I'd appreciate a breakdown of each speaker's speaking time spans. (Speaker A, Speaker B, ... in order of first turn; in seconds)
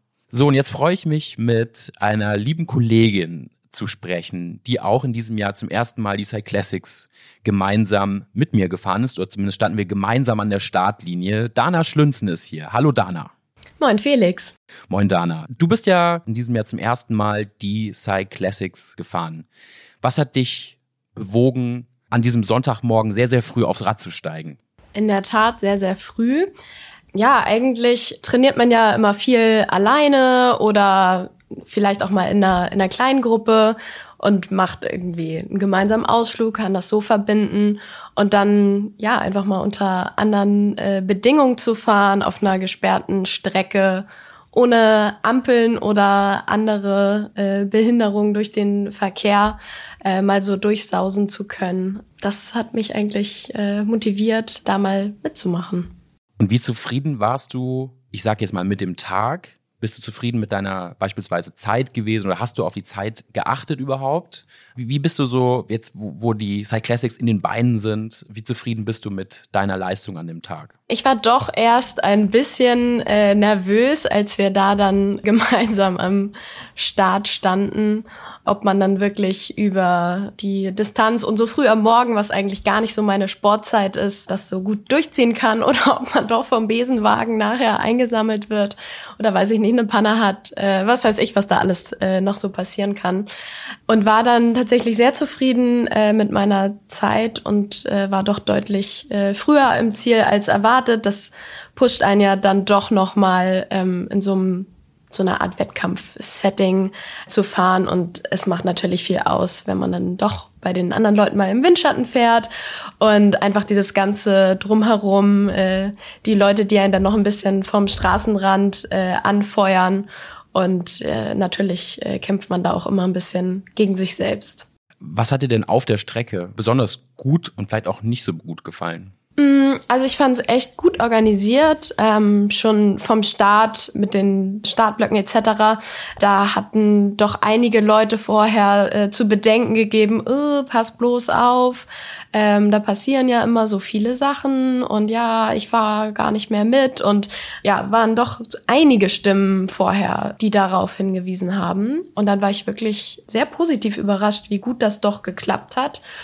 Speaker A: 0.3-13.3, 14.9-19.5, 20.0-24.6, 56.4-70.7, 125.0-129.1
Speaker B: 13.8-14.5, 24.9-26.5, 27.1-55.9, 70.9-93.3, 93.9-112.5, 113.0-124.7, 129.4-156.0